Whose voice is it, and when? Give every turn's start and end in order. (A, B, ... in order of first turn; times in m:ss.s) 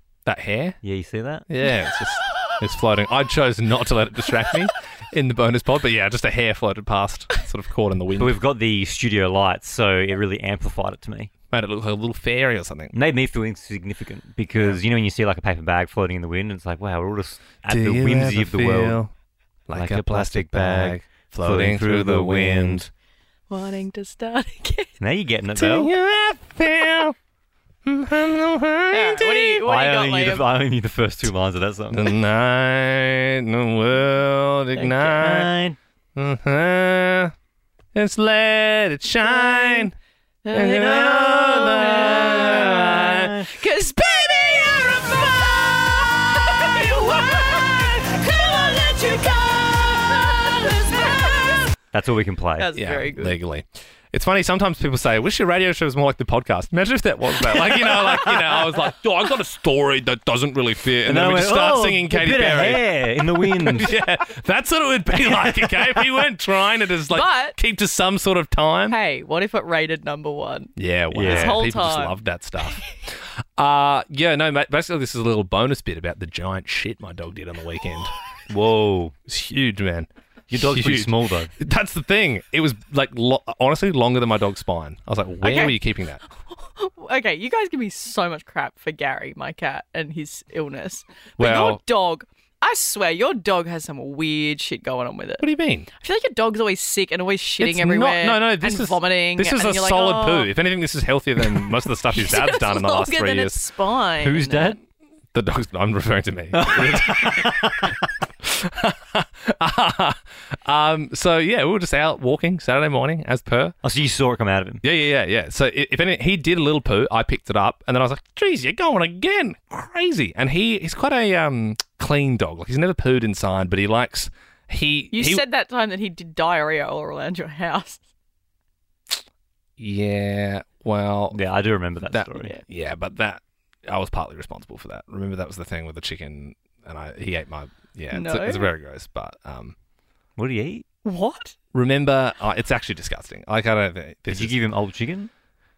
0:00.2-0:00.8 A
0:00.8-0:01.5 B
0:01.5-0:08.4 A
0:08.2-0:11.3 B
0:11.5-0:12.9 A
0:12.9-0:19.0 B
0:17.7-0:19.1 A
0:19.7-0:22.9 A
0:19.7-0:22.9 B
0:23.5-0:24.9 C
0:25.0-0:25.9 B
0:25.6-0:27.2 A
0:27.8-0:29.6 A
0:28.9-0:30.5 C
0:29.6-0:32.1 B
0:31.9-0:35.5 A
0:34.8-0:35.8 B
0:36.2-0:37.3 A
0:38.0-0:40.0 A
0:39.4-0:39.9 C
0:40.4-0:51.7 C
0:40.5-0:43.4 A
0:40.6-0:41.1 B
0:41.7-0:43.5 B
0:51.9-0:52.7 B
0:52.6-0:53.4 C
0:52.8-1:09.0 A
0:57.7-0:58.6 B
1:01.0-1:04.0 B
1:07.1-1:07.6 C
1:08.9-1:12.2 C
1:10.8-1:18.1 A
1:11.1-1:11.6 B
1:18.5-1:19.1 B
1:19.3-1:26.2 A
1:20.5-1:21.5 B
1:25.4-1:25.8 C
1:26.5-1:35.4 C
1:31.4-1:31.8 A
1:35.4-1:35.9 A
1:36.0-1:40.5 C
1:37.6-1:43.6 A
1:41.4-1:44.8 C
1:44.2-1:44.8 B
1:45.3-1:47.8 A
1:46.5-1:47.9 B
1:48.4-1:53.8 A
1:53.8-1:54.8 B
1:54.8-2:05.4 A
2:05.1-2:08.0 C
2:09.8-2:11.4 A
2:11.3-2:12.6 B
2:12.0-2:19.8 A
2:18.1-2:18.7 C
2:20.4-2:20.8 B
2:21.0-2:21.6 C
2:21.7-2:24.6 A
2:24.3-2:25.3 B